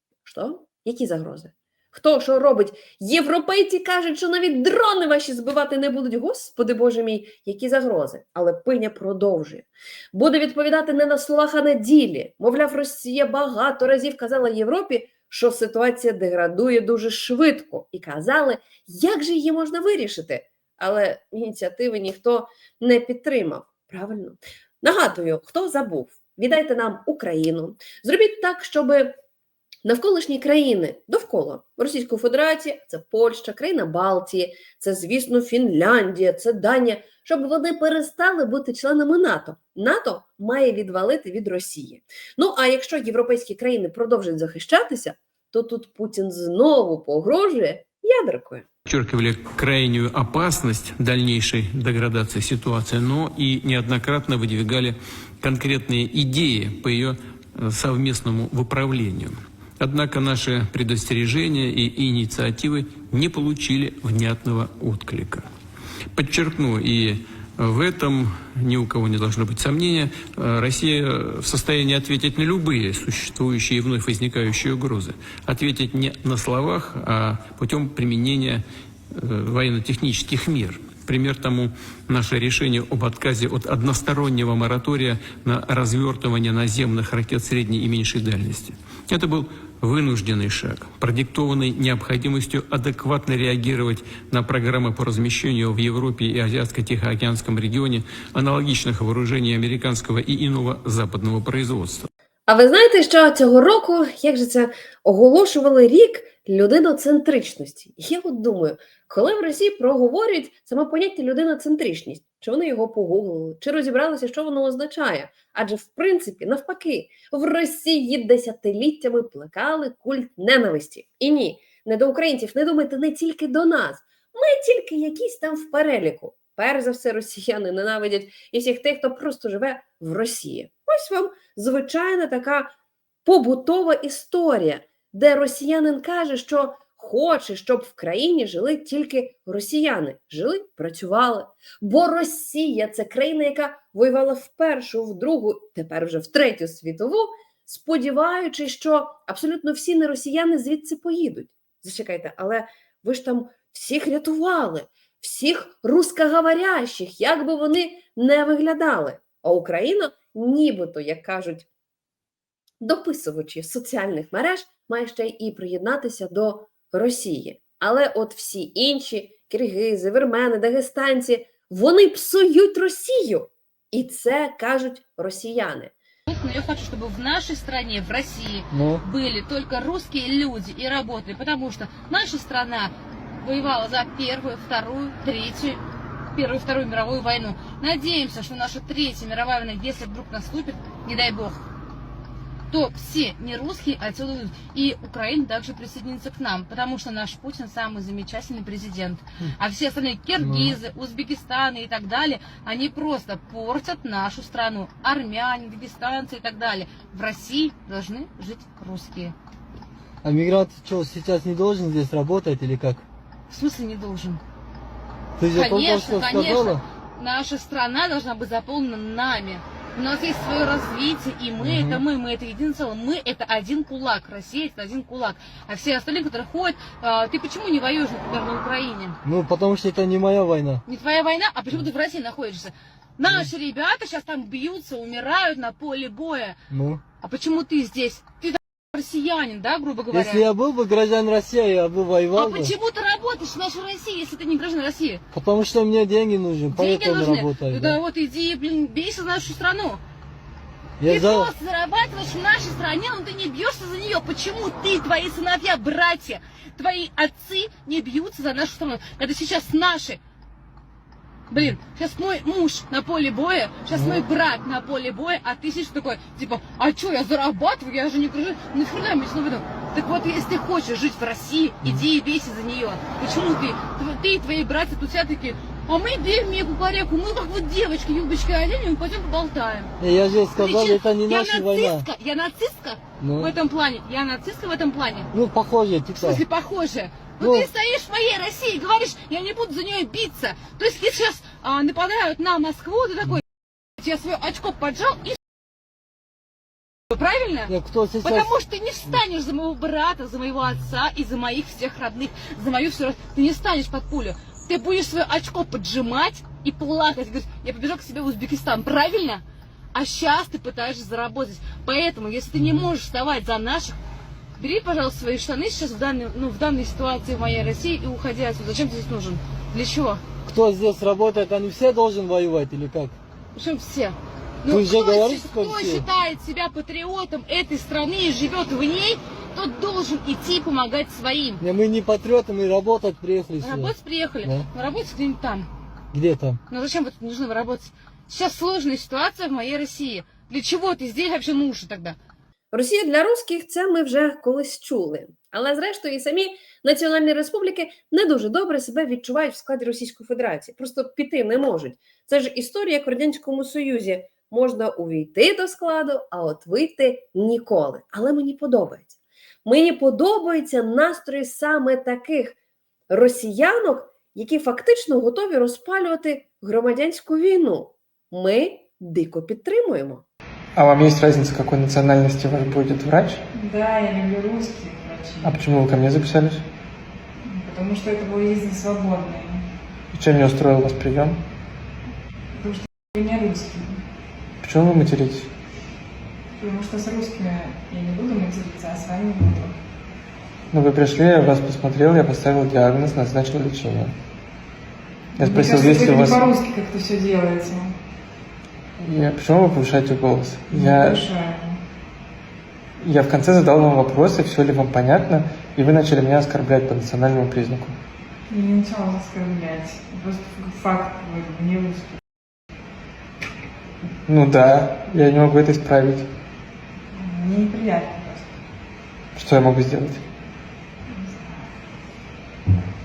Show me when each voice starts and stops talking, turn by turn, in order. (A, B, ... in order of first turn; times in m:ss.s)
0:00.2-0:29.1 A
0:29.8-0:48.6 A
0:48.8-1:05.5 B
1:06.1-1:42.1 B
1:42.5-2:12.7 A
2:13.2-2:41.6 A
2:42.8-2:55.9 A
2:56.3-3:11.6 C
2:58.7-2:59.0 D
3:12.7-3:29.3 C
3:30.2-3:33.0 E
3:30.4-3:31.2 D
3:33.5-3:34.4 C
3:35.4-3:36.8 E
3:35.4-3:49.2 C
3:35.6-3:35.9 D
3:49.2-3:50.8 E
3:50.8-3:56.6 C
3:56.7-3:57.0 E
3:57.2-4:00.5 C
4:00.2-4:02.6 E
4:02.3-4:05.2 C
4:05.3-4:07.8 E
4:06.7-4:10.0 C
4:11.0-4:11.4 E
4:11.0-4:20.2 C
4:21.5-4:39.9 C
4:23.9-4:24.2 D
4:40.0-4:41.7 E
4:40.5-4:45.3 C
4:40.7-4:42.0 D
4:43.2-4:43.5 E
4:45.3-4:46.3 E
4:46.1-4:53.4 C
4:54.0-4:55.4 C
4:57.1-5:14.0 C
4:57.7-4:58.3 E
5:14.6-5:20.2 C
5:20.5-5:23.1 E
5:23.5-5:31.6 C
5:24.7-5:25.8 D
5:24.8-5:26.0 E
5:31.8-5:33.7 E
5:33.6-5:35.7 C
5:36.1-5:36.6 E
5:36.7-5:42.2 C
5:42.7-6:02.6 A
6:03.1-6:10.2 A
6:10.7-6:13.4 F
6:13.5-6:15.6 D
6:15.4-6:16.6 F
6:17.4-6:19.6 D
6:20.1-6:21.4 F
6:22.6-6:24.0 D
6:24.6-6:25.5 F
6:26.6-6:29.8 D
6:30.7-6:34.2 F
6:35.4-6:36.5 F
6:35.4-6:38.0 D
6:39.0-6:41.2 F
6:40.7-6:41.8 D
6:43.0-6:48.0 F
6:48.5-6:52.2 D
6:54.2-6:56.3 F
6:57.1-6:58.5 D
6:59.4-7:00.2 F
7:01.1-7:01.7 D